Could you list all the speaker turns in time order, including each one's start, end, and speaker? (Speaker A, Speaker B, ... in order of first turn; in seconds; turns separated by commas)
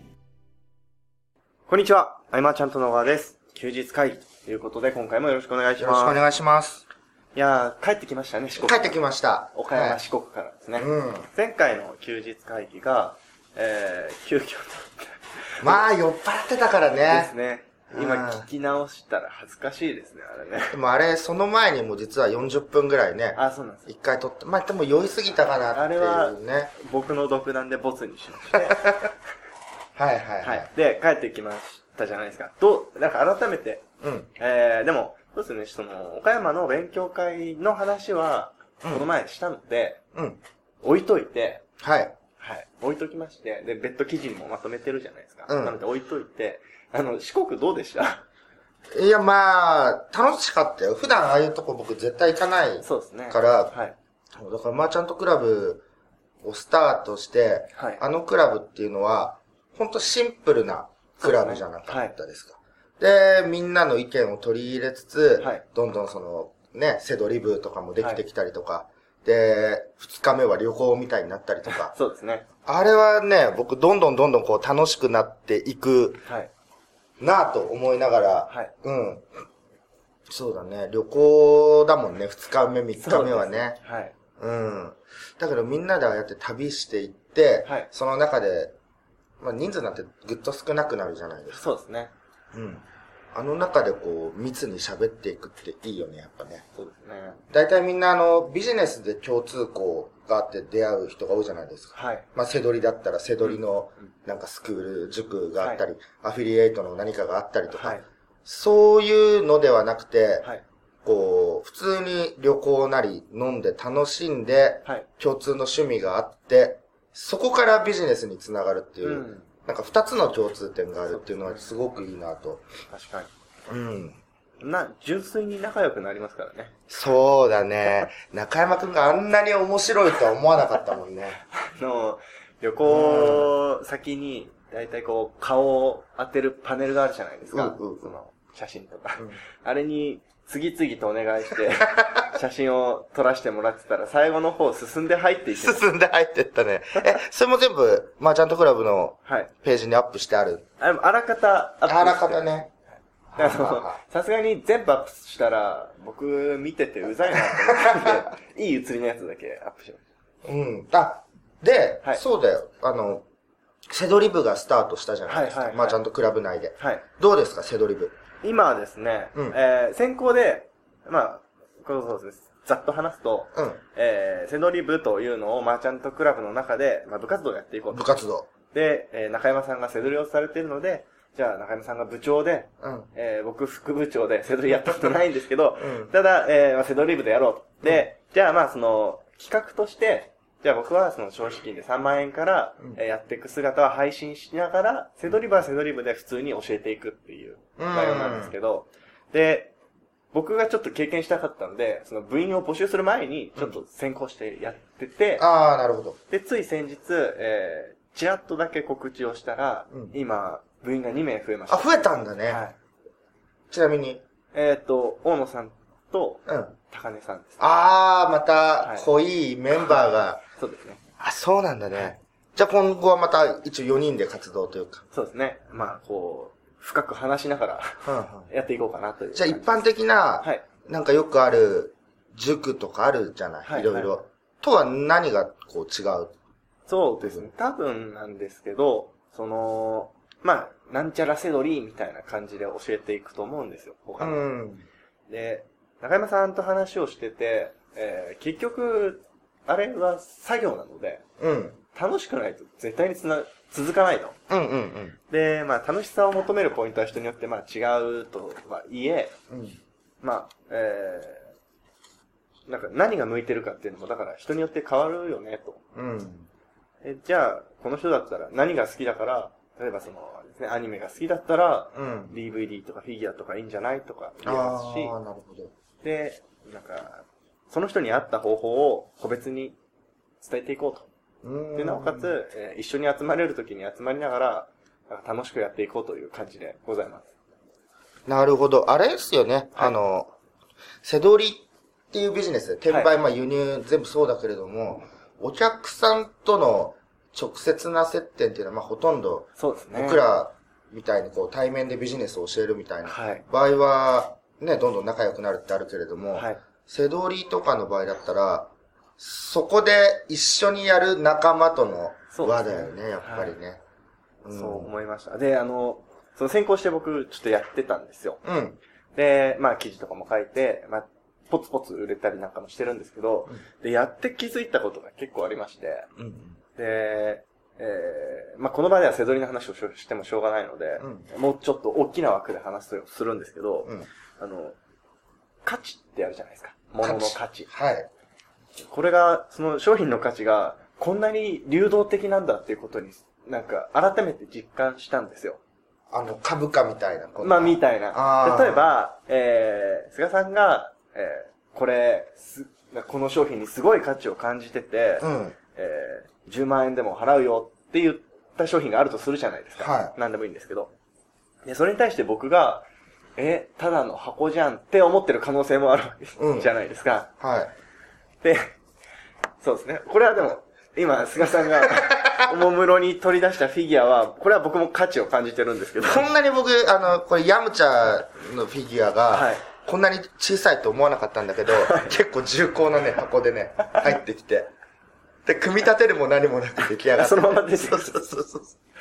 Speaker A: 1.7-6.2, Speaker B: 5.8-6.8, Speaker A: 7.3-9.0, Speaker B: 8.6-10.0, Speaker A: 9.5-15.8, Speaker B: 10.8-11.3, Speaker B: 15.6-17.3, Speaker A: 17.1-20.8, Speaker B: 17.9-18.5, Speaker B: 20.7-26.7, Speaker A: 23.3-23.9, Speaker A: 25.7-29.1, Speaker B: 28.6-29.1, Speaker B: 30.0-30.7, Speaker A: 30.4-33.9, Speaker B: 34.0-34.3, Speaker A: 34.4-40.0, Speaker B: 38.8-39.1, Speaker B: 40.1-40.4, Speaker A: 40.8-41.6, Speaker B: 41.8-42.1, Speaker A: 42.4-48.2, Speaker B: 45.5-45.8, Speaker B: 48.9-53.7, Speaker A: 52.8-54.0, Speaker B: 54.4-55.9, Speaker B: 56.4-71.9, Speaker A: 57.8-58.0, Speaker A: 61.2-62.1, Speaker A: 71.7-72.5, Speaker B: 72.7-76.2, Speaker A: 76.2-76.5, Speaker B: 77.2-79.3, Speaker B: 80.3-83.8, Speaker A: 83.0-84.1, Speaker B: 84.4-88.7, Speaker B: 89.4-91.6, Speaker A: 91.5-92.1, Speaker B: 92.5-96.6, Speaker A: 96.8-97.4, Speaker B: 97.5-110.5, Speaker A: 101.9-102.3, Speaker A: 103.4-104.1, Speaker A: 107.7-108.0, Speaker B: 111.0-122.7, Speaker A: 119.0-119.5, Speaker A: 121.1-121.8, Speaker A: 122.9-123.3, Speaker B: 123.7-124.2, Speaker A: 124.6-126.7, Speaker B: 126.9-131.4, Speaker A: 131.5-145.8, Speaker B: 132.9-133.5, Speaker B: 137.5-138.1, Speaker B: 141.8-142.2, Speaker B: 145.5-150.7, Speaker A: 149.3-149.5, Speaker A: 150.8-152.7, Speaker B: 151.9-152.7, Speaker B: 153.3-154.0, Speaker A: 153.4-160.0, Speaker B: 157.3-158.2, Speaker B: 160.4-163.2, Speaker B: 163.9-168.2, Speaker A: 165.3-166.0, Speaker A: 166.8-167.1, Speaker A: 168.4-178.2, Speaker B: 177.9-178.5, Speaker A: 178.7-199.7, Speaker B: 182.8-183.1, Speaker B: 185.8-186.1, Speaker B: 195.3-195.6, Speaker B: 197.8-198.5, Speaker A: 200.3-205.4, Speaker B: 205.4-206.2, Speaker A: 206.3-212.8, Speaker B: 211.7-212.6, Speaker B: 213.7-214.2, Speaker A: 214.5-217.8, Speaker B: 216.5-216.7, Speaker B: 217.6-220.4, Speaker A: 218.8-219.1, Speaker A: 219.7-221.0, Speaker B: 221.2-225.0, Speaker A: 225.1-229.9, Speaker B: 228.0-228.5, Speaker B: 229.3-236.3, Speaker A: 233.7-234.1, Speaker A: 236.9-244.5, Speaker B: 237.2-237.5, Speaker B: 244.2-244.8, Speaker A: 245.3-251.2, Speaker B: 251.4-251.8, Speaker A: 251.9-254.4, Speaker B: 254.5-255.2, Speaker A: 255.3-259.3, Speaker B: 259.5-259.8, Speaker A: 260.2-261.5, Speaker A: 262.7-265.8, Speaker B: 265.9-266.5, Speaker A: 267.0-275.1, Speaker B: 271.9-272.4, Speaker B: 274.4-275.7, Speaker A: 276.0-279.8, Speaker A: 280.4-281.1, Speaker B: 281.4-282.4, Speaker A: 281.8-287.3, Speaker B: 288.3-290.3, Speaker B: 291.0-313.8, Speaker A: 292.9-293.1, Speaker A: 299.6-300.3, Speaker A: 303.1-303.4, Speaker A: 306.3-306.6, Speaker A: 312.3-313.6, Speaker B: 314.4-314.9, Speaker A: 314.5-318.4, Speaker B: 318.4-318.8, Speaker A: 319.1-326.1, Speaker B: 326.2-326.6, Speaker A: 326.8-334.8, Speaker B: 331.0-331.3, Speaker A: 335.6-337.7, Speaker B: 337.0-338.1, Speaker A: 338.9-345.6, Speaker B: 346.1-348.9, Speaker A: 347.4-360.9, Speaker B: 355.2-355.6, Speaker B: 359.8-360.1, Speaker A: 361.7-362.9, Speaker A: 363.4-367.3, Speaker B: 366.4-366.7, Speaker B: 367.4-367.7, Speaker A: 368.4-368.7, Speaker A: 369.6-376.3, Speaker B: 371.8-372.5, Speaker B: 376.0-384.7, Speaker A: 379.3-379.6, Speaker A: 381.7-382.1, Speaker B: 385.5-388.8, Speaker A: 387.1-388.2